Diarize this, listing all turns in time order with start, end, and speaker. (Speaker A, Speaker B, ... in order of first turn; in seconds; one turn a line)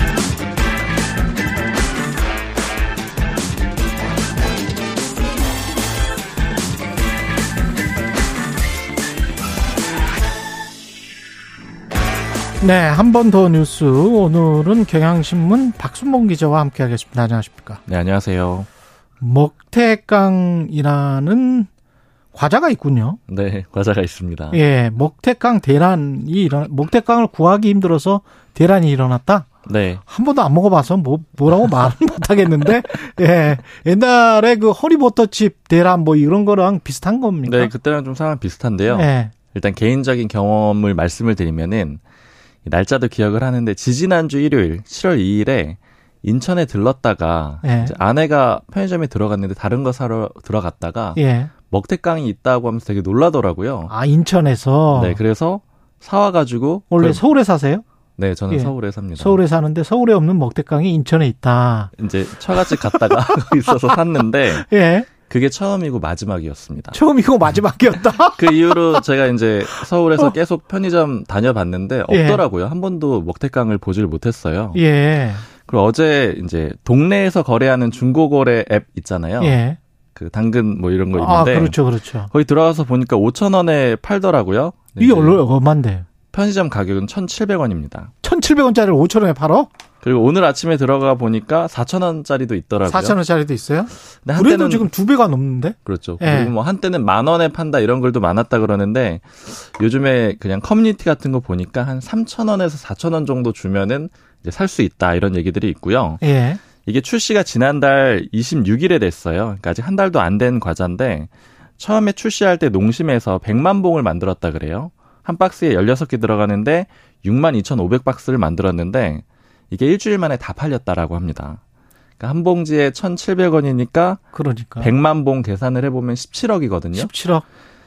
Speaker A: 12.6-17.8
Speaker B: 17.9-18.7
Speaker A: 19.2-21.7
Speaker A: 22.3-23.2
Speaker B: 23.3-24.6
Speaker A: 24.5-29.5
Speaker B: 29.7-30.0
Speaker A: 30.0-37.7
Speaker B: 37.5-42.0
Speaker A: 38.9-39.3
Speaker B: 42.6-53.9
Speaker A: 47.6-47.9
Speaker A: 51.1-51.5
Speaker A: 53.9-55.2
Speaker B: 54.9-57.2
Speaker A: 56.9-57.8
Speaker B: 58.2-59.4
Speaker A: 58.5-61.9
Speaker B: 62.0-64.7
Speaker A: 62.5-63.8
Speaker A: 64.6-65.1
Speaker B: 65.2-67.0
Speaker A: 66.9-69.0
Speaker B: 68.3-74.8
Speaker A: 69.8-70.3
Speaker A: 72.1-72.4
Speaker A: 74.7-75.5
Speaker B: 75.7-79.6
Speaker A: 79.4-79.8
Speaker B: 80.2-81.8
Speaker A: 81.2-82.3
Speaker B: 82.3-85.4
Speaker A: 85.0-86.1
Speaker B: 86.3-88.1
Speaker A: 88.2-89.7
Speaker B: 90.0-93.2
Speaker A: 92.9-96.5
Speaker B: 94.2-94.9
Speaker B: 95.9-106.2
Speaker A: 106.2-106.6
Speaker B: 106.8-121.6
Speaker B: 122.2-124.2
Speaker A: 124.3-124.9
Speaker B: 124.8-127.1
Speaker A: 126.9-127.4